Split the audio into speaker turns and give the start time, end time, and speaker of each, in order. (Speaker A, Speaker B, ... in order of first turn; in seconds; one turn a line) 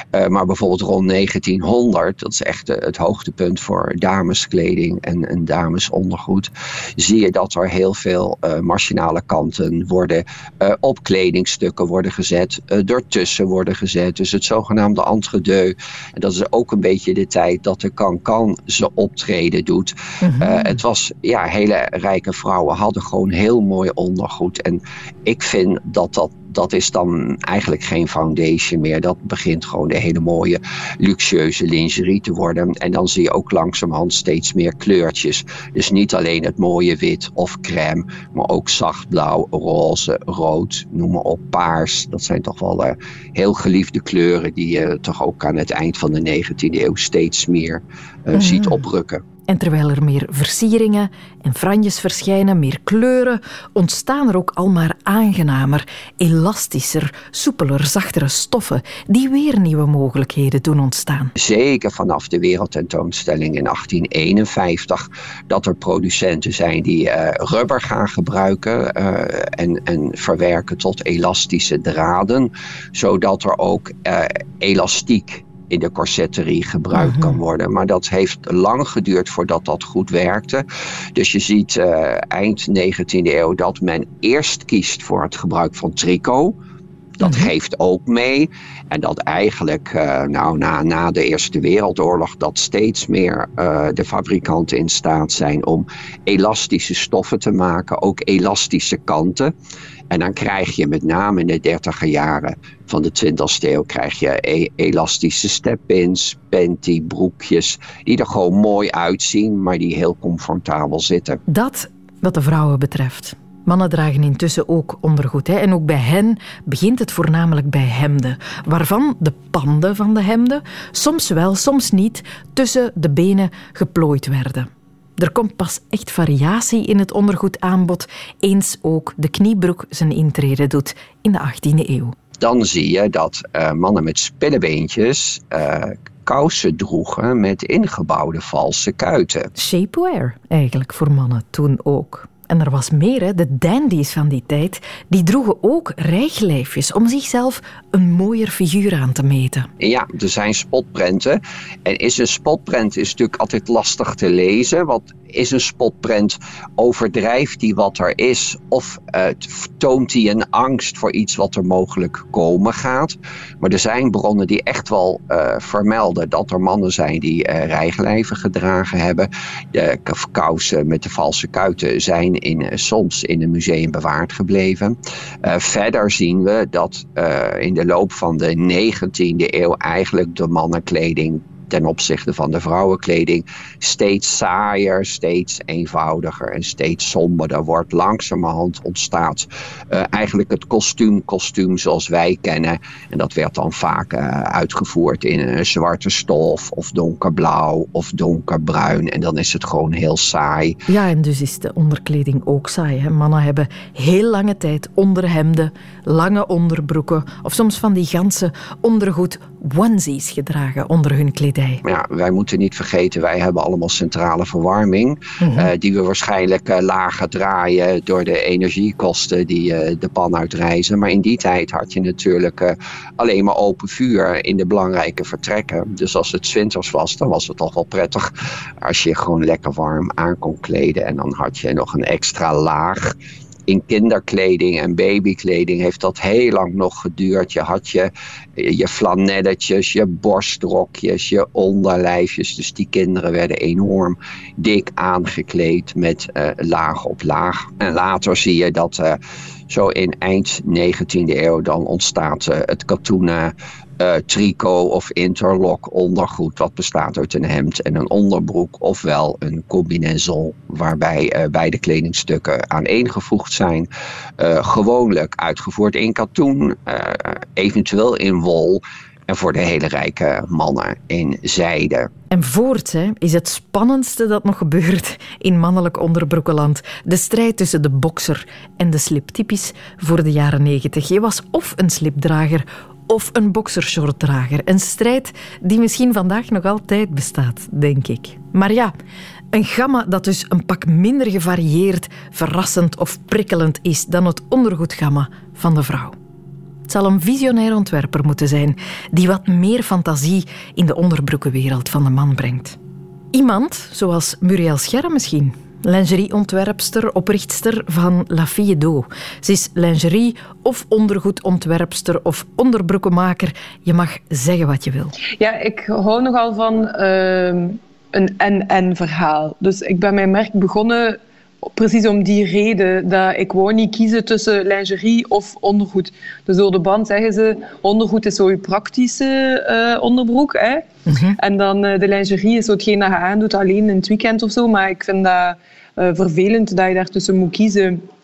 Speaker A: 0.1-49.2
Speaker B: 20.2-20.8
Speaker B: 48.4-48.9
Speaker B: 49.5-61.3
Speaker A: 61.4-80.7
Speaker B: 77.0-77.4
Speaker A: 81.2-86.5
Speaker A: 87.2-99.5
Speaker B: 87.2-87.5
Speaker A: 100.1-111.4
Speaker B: 111.5-132.2
Speaker A: 132.4-139.5
Speaker B: 139.6-149.7
Speaker A: 149.8-200.8
Speaker B: 200.9-211.8
Speaker A: 211.8-228.3
Speaker B: 215.4-215.7
Speaker A: 228.8-233.1
Speaker A: 233.7-272.1
Speaker B: 272.3-288.9
Speaker B: 289.5-296.2
Speaker B: 296.9-302.8
Speaker B: 303.3-315.1
Speaker C: 315.4-330.9
Speaker B: 331.1-331.4
Speaker C: 331.4-338.0